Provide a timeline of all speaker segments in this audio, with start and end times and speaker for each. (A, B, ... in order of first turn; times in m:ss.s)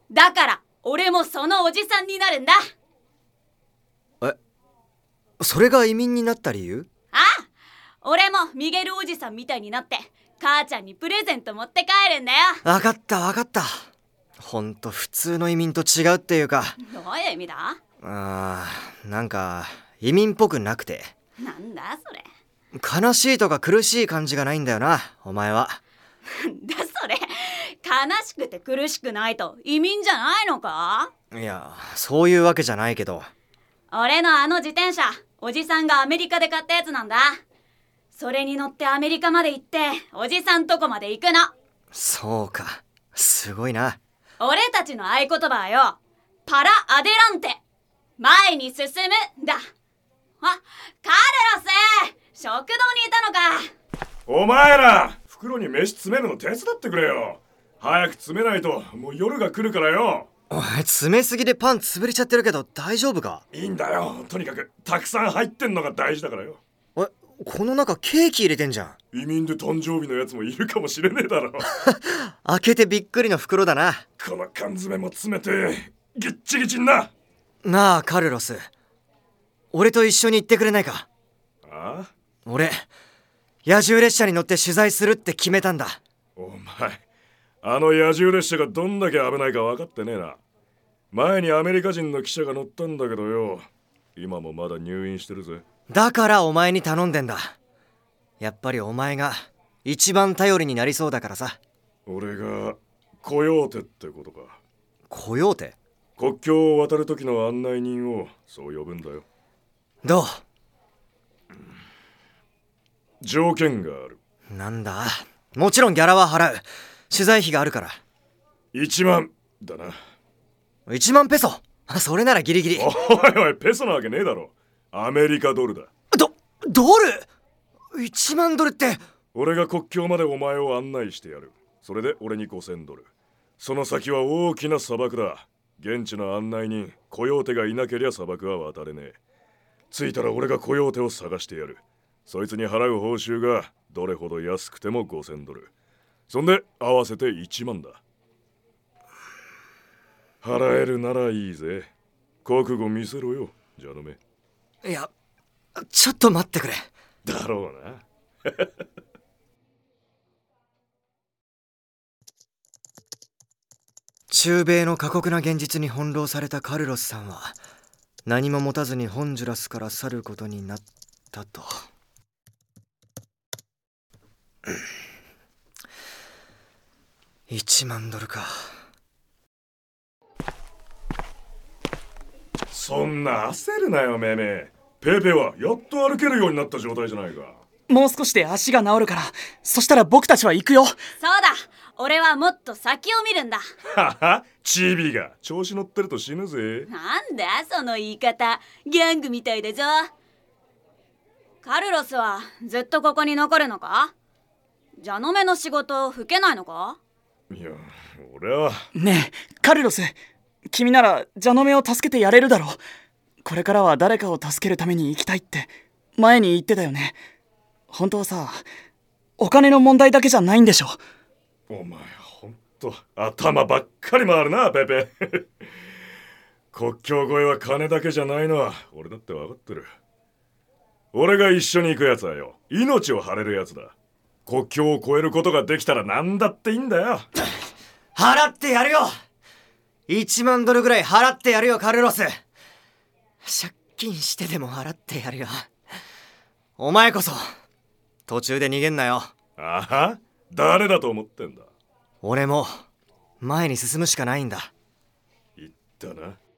0:00.1-0:02.6 A
0:05.4-0:06.9 B
0:07.1-0:07.4 A
0:08.0-0:12.6 A
0:12.6-0:13.8 B
0:14.4-0:16.8 B
0:16.8-0:17.8 A
0:18.0-0:21.1 B
0:21.4-0:22.2 A
0:22.7-0:25.8 B
0:26.4-0:31.1 A
0:31.3-0:33.3 B
0:33.9-0:37.4 A
0:38.1-0:41.5 A
0:41.9-0:44.0 B
0:44.4-0:47.6 A
0:48.2-0:49.6 A
0:50.4-0:53.6 A
0:54.3-1:00.3 C
1:00.5-1:03.4 B
1:03.5-1:06.6 C
1:07.0-1:09.0 B
1:09.1-1:11.7 C
1:11.7-1:14.0 B
1:14.2-1:17.1 C
1:17.6-1:18.7 B
1:19.7-1:21.1 B
1:21.6-1:22.1 C
1:22.4-1:22.9 B
1:23.6-1:26.0 B
1:26.4-1:27.0 C
1:27.6-1:30.4 C
1:31.1-1:35.6 C
1:35.9-1:37.5 B
1:38.4-1:41.6 B
1:42.0-1:44.6 C
1:45.1-1:45.8 B
1:46.2-1:49.2 C
1:50.0-1:50.4 B
1:53.2-1:54.2 C
1:54.5-1:58.0 B
1:58.7-2:00.0 C
2:00.9-2:02.9 B
2:02.8-2:05.9 C
2:06.1-2:07.3 B
2:07.9-2:09.0 B
2:09.3-2:13.1 C
2:13.6-2:19.2 C
2:19.9-2:25.7 C
2:26.3-2:28.0 C
2:30.4-2:31.9 C
2:32.4-2:34.2 C
2:34.8-2:35.1 B
2:35.8-2:36.9 B
2:37.2-2:38.6 C
2:44.3-2:47.6 B
2:48.2-2:51.7 B
2:57.5-2:58.7 B
3:02.7-3:07.6 C
3:07.9-3:11.0 D
3:11.2-3:13.6 A
3:13.9-3:16.9 C
3:16.9-3:20.1 A
3:21.6-3:24.1 A
3:25.0-3:27.0 A
3:27.5-3:28.8 C
3:28.9-3:30.1 D
3:30.7-3:32.8 D
3:33.4-3:37.2 D
3:37.9-3:38.6 D
3:39.4-3:41.0 D
3:41.7-3:45.5 C
3:46.7-3:49.9 C
3:51.1-3:53.9 C
3:54.4-3:57.3 C
3:58.1-3:59.1 B
4:00.1-4:02.4 B
4:03.4-4:05.7 B
4:06.8-4:07.4 B
4:08.3-4:09.3 B
4:09.6-4:11.7 C
4:12.2-4:12.8 B
4:13.4-4:14.7 B
4:15.6-4:16.4 C